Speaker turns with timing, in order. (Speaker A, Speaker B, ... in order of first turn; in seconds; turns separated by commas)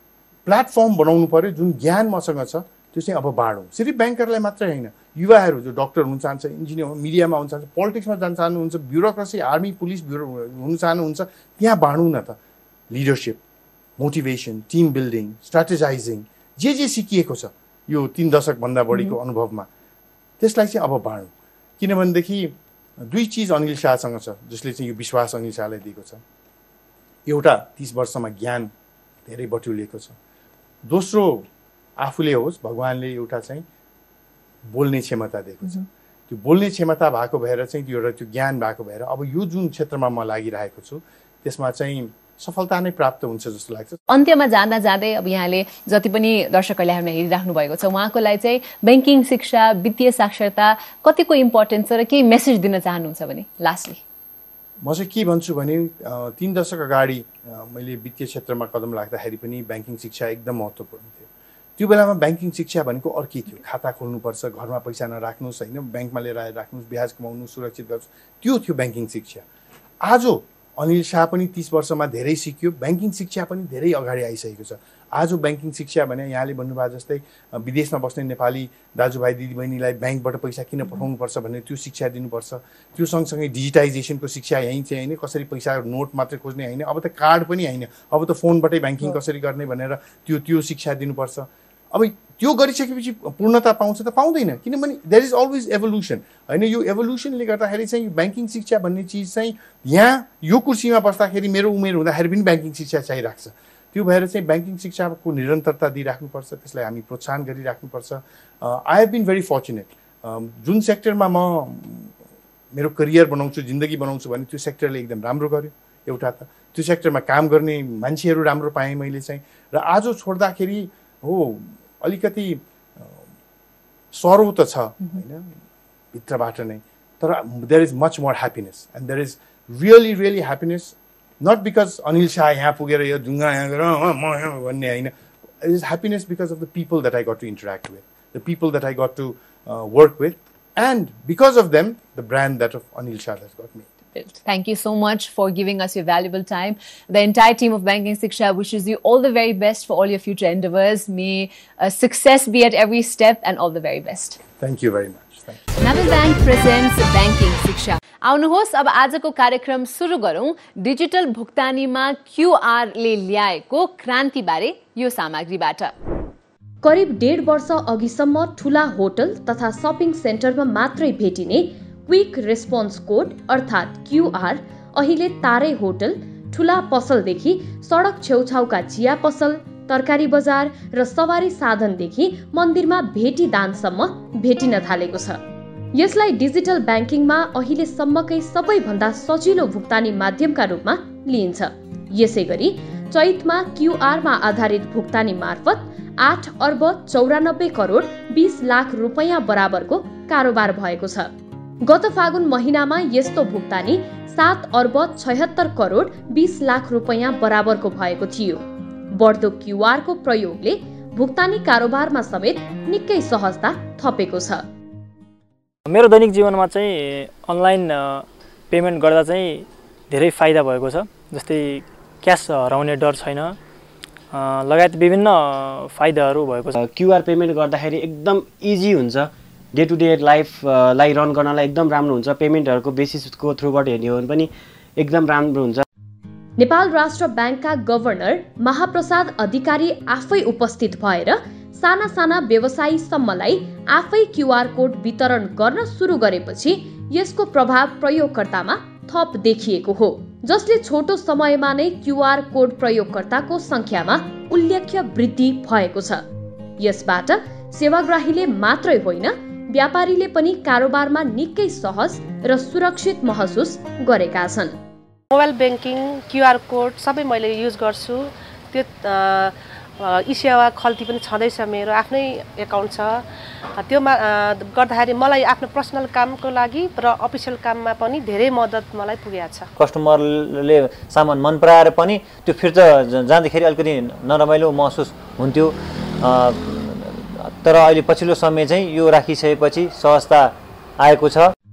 Speaker A: 0.5-12.4, Speaker A: 12.9-13.4, Speaker A: 14.0-19.7, Speaker A: 20.4-26.2, Speaker A: 27.3-28.7, Speaker A: 29.2-30.2, Speaker A: 30.8-33.6, Speaker A: 34.7-44.0, Speaker B: 44.1-54.0, Speaker A: 54.8-69.5, Speaker A: 70.0-112.1, Speaker A: 112.7-123.3, Speaker A: 124.1-125.6, Speaker A: 126.1-143.9, Speaker B: 144.2-154.4, Speaker A: 154.6-155.6, Speaker B: 155.8-165.9, Speaker C: 166.8-185.4, Speaker C: 185.9-201.3, Speaker C: 201.8-214.6, Speaker D: 215.9-223.6, Speaker D: 224.3-226.8, Speaker E: 226.8-235.8, Speaker C: 236.6-256.2, Speaker C: 256.8-264.8, Speaker F: 265.3-279.7, Speaker G: 279.8-291.5